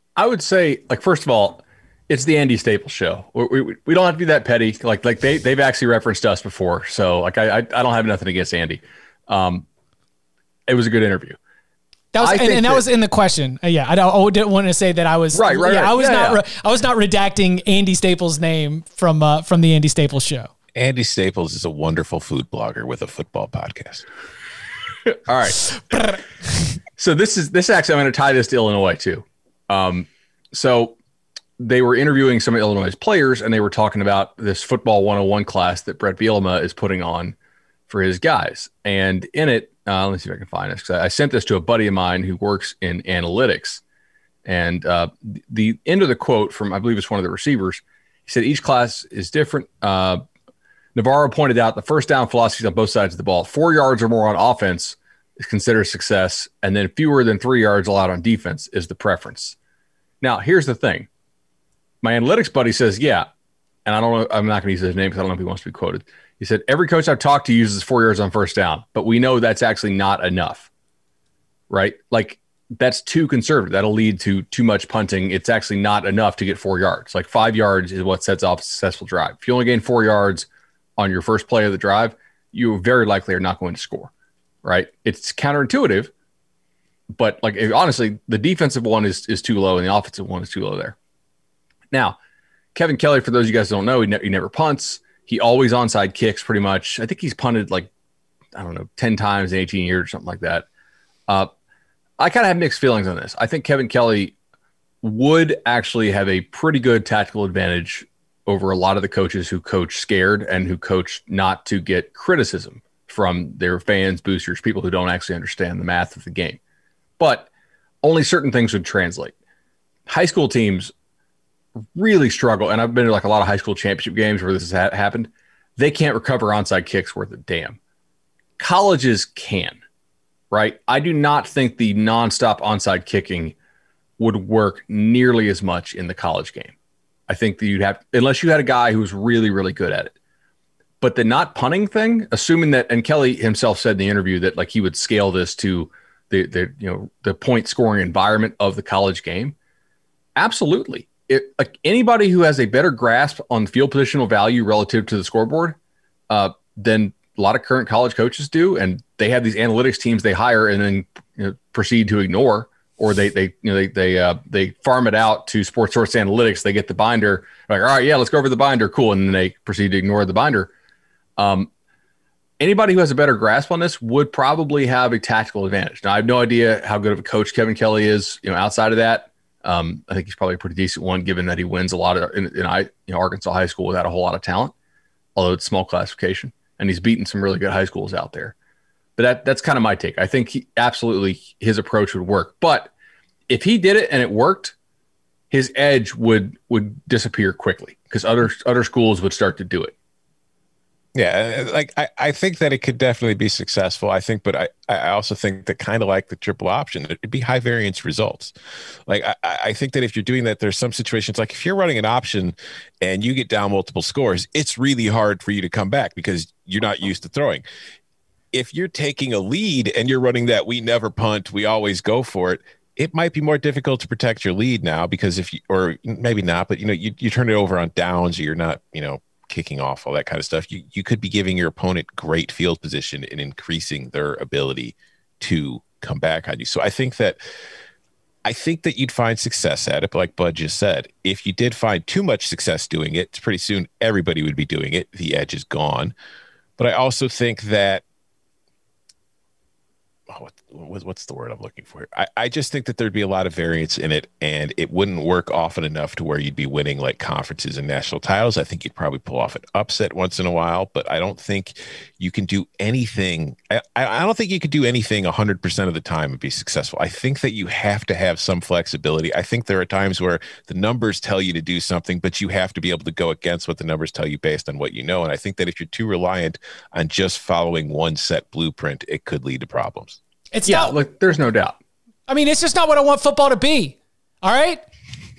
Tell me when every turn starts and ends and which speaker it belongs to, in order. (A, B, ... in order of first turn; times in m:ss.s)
0:00.2-0:09.6 A
0:10.7-0:11.4 A
0:12.1-0:20.5 B
0:12.2-0:12.8 A
0:15.3-0:16.4 A
0:20.8-0:24.0 C
0:25.3-0:25.7 A
0:25.9-0:26.2 B
0:27.0-0:31.0 A
0:31.6-0:37.4 A
0:37.9-0:43.8 A
0:44.4-0:50.2 A
0:51.0-0:59.6 A
1:00.2-1:01.1 A
1:02.0-1:03.3 A
1:03.9-1:10.7 A
1:11.7-1:24.1 A
1:24.6-1:26.1 A
1:27.1-1:31.0 A
1:31.9-1:32.2 A
1:32.8-1:37.9 A
1:38.6-1:40.7 A
1:42.2-1:44.4 A
1:45.0-1:56.6 A
1:57.2-1:57.5 A
1:58.0-1:59.3 A
2:00.1-2:00.9 A
2:01.9-2:07.8 A
2:08.6-2:09.8 A
2:10.5-2:13.6 A
2:14.2-2:16.7 A
2:17.3-2:20.1 A
2:21.0-2:29.6 A
2:30.4-2:35.8 A
2:36.3-2:50.7 A
2:51.4-2:51.7 A
2:52.6-3:04.7 A
3:05.4-3:08.5 A
3:09.2-3:12.9 A
3:13.5-3:14.8 A
3:15.5-3:19.9 A
3:21.2-3:28.5 C
3:29.1-3:37.6 C
3:38.5-3:57.4 C
3:58.4-4:06.1 C
4:06.8-4:08.0 C
4:10.3-4:40.2 C
4:40.5-4:41.0 B
4:40.7-4:41.8 A
4:42.3-4:44.8 B